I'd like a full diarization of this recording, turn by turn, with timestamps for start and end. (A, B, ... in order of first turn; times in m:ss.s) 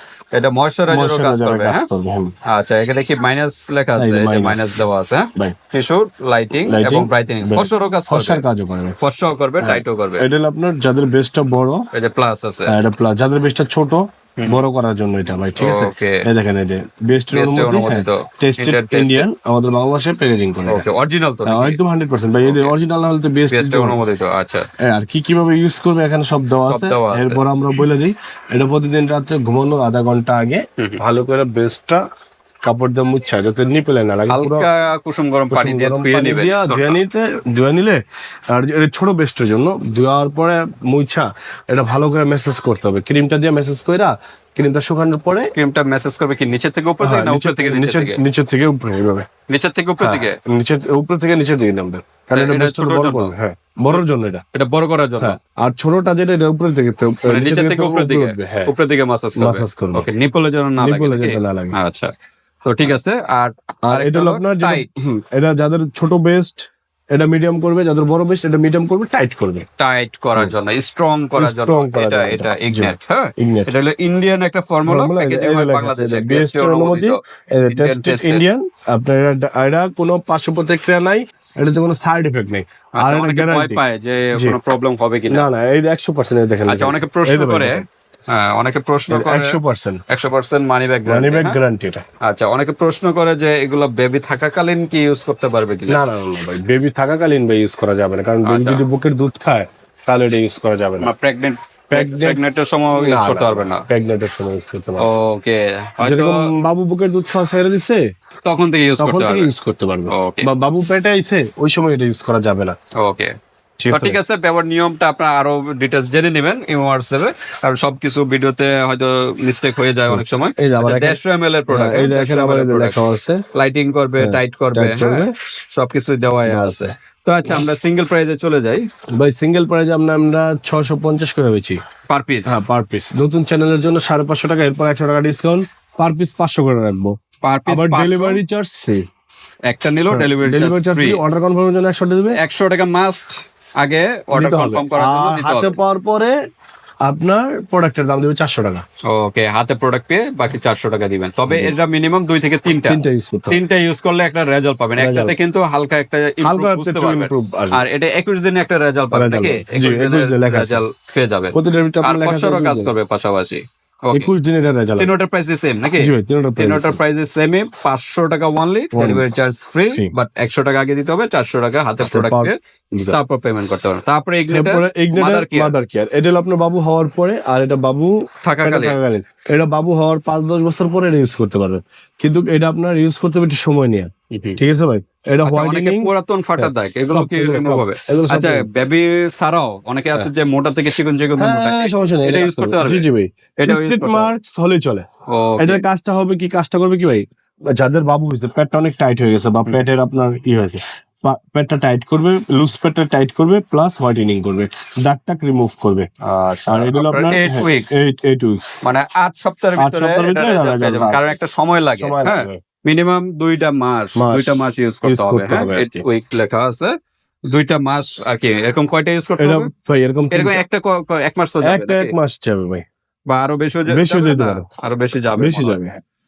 0:00.3-0:01.9 A
0:00.9-0:02.3 B
0:02.5-0:08.4 A
0:04.0-0:05.6 B
0:06.7-0:09.0 B
0:09.0-0:10.2 A
0:09.6-0:11.9 B
0:11.9-0:12.7 A
0:12.7-0:20.8 B
0:15.6-0:16.2 A
0:17.3-0:19.3 A
0:20.7-0:21.8 A
0:21.4-0:24.0 B
0:22.4-0:22.7 A
0:23.5-0:24.7 A
0:24.8-0:32.0 B
0:26.6-0:27.4 A
0:32.6-0:34.7 B
0:34.3-0:37.0 A
0:35.5-0:38.0 B
0:38.5-0:45.5 B
0:45.5-0:48.2 A
0:47.0-0:49.3 B
0:49.5-0:50.4 A
0:50.0-0:54.4 B
0:52.3-0:53.3 A
0:53.9-0:55.4 A
0:55.2-0:58.7 B
0:57.3-1:02.1 A
0:59.4-1:00.0 B
1:00.8-1:01.7 B
1:02.6-1:04.9 A
1:03.8-1:09.6 B
1:09.8-1:18.4 A
1:11.4-1:13.7 B
1:14.9-1:23.8 B
1:23.0-1:25.5 A
1:25.3-1:27.8 B
1:26.7-1:27.8 A
1:28.3-1:29.6 A
1:29.1-1:30.0 B
1:30.1-1:31.6 A
1:31.1-1:32.0 B
1:32.2-1:36.0 A
1:35.9-1:41.1 B
1:38.4-1:38.8 A
1:41.0-1:43.8 A
1:41.9-1:42.4 B
1:42.9-1:45.1 B
1:45.0-1:46.4 A
1:46.0-1:48.0 B
1:48.4-1:49.5 A
1:49.0-1:52.8 B
1:50.1-1:50.5 A
1:53.0-1:53.3 A
1:53.8-1:54.2 B
1:53.9-2:03.0 A
2:00.1-2:03.4 B
2:03.5-2:08.8 A
2:04.2-2:05.3 B
2:06.5-2:06.9 B
2:09.2-2:11.8 B
2:12.1-2:12.6 A
2:12.5-2:19.0 B
2:17.4-2:18.4 A
2:19.7-2:21.2 A
2:20.1-2:22.4 B
2:22.3-2:25.8 A
2:24.3-2:26.3 B
2:27.0-2:28.8 B
2:29.1-2:44.3 A
2:31.5-2:31.7 B
2:32.9-2:33.6 B
2:35.0-2:35.3 B
2:36.4-2:37.8 B
2:39.1-2:40.8 B
2:41.5-2:42.9 B
2:44.1-2:45.1 B
2:45.0-2:52.6 A
2:46.0-2:47.0 B
2:48.9-2:49.2 B
2:52.0-2:53.2 B
2:53.1-2:55.7 A
2:54.5-3:08.7 B
2:58.4-2:59.0 A
3:04.3-3:04.6 A
3:05.4-3:13.1 A
3:11.4-3:26.1 B
3:13.6-3:14.3 A
3:15.3-3:15.8 A
3:26.2-3:28.0 A
3:26.7-3:28.8 B
3:28.8-3:36.9 A
3:29.8-3:31.3 B
3:32.0-3:32.6 B
3:34.2-3:36.0 B
3:37.5-3:39.7 A
3:39.4-3:40.6 B
3:40.3-3:42.1 A
3:41.6-3:42.8 B
3:43.3-3:45.8 A
3:43.9-3:44.7 B
3:45.4-3:46.0 B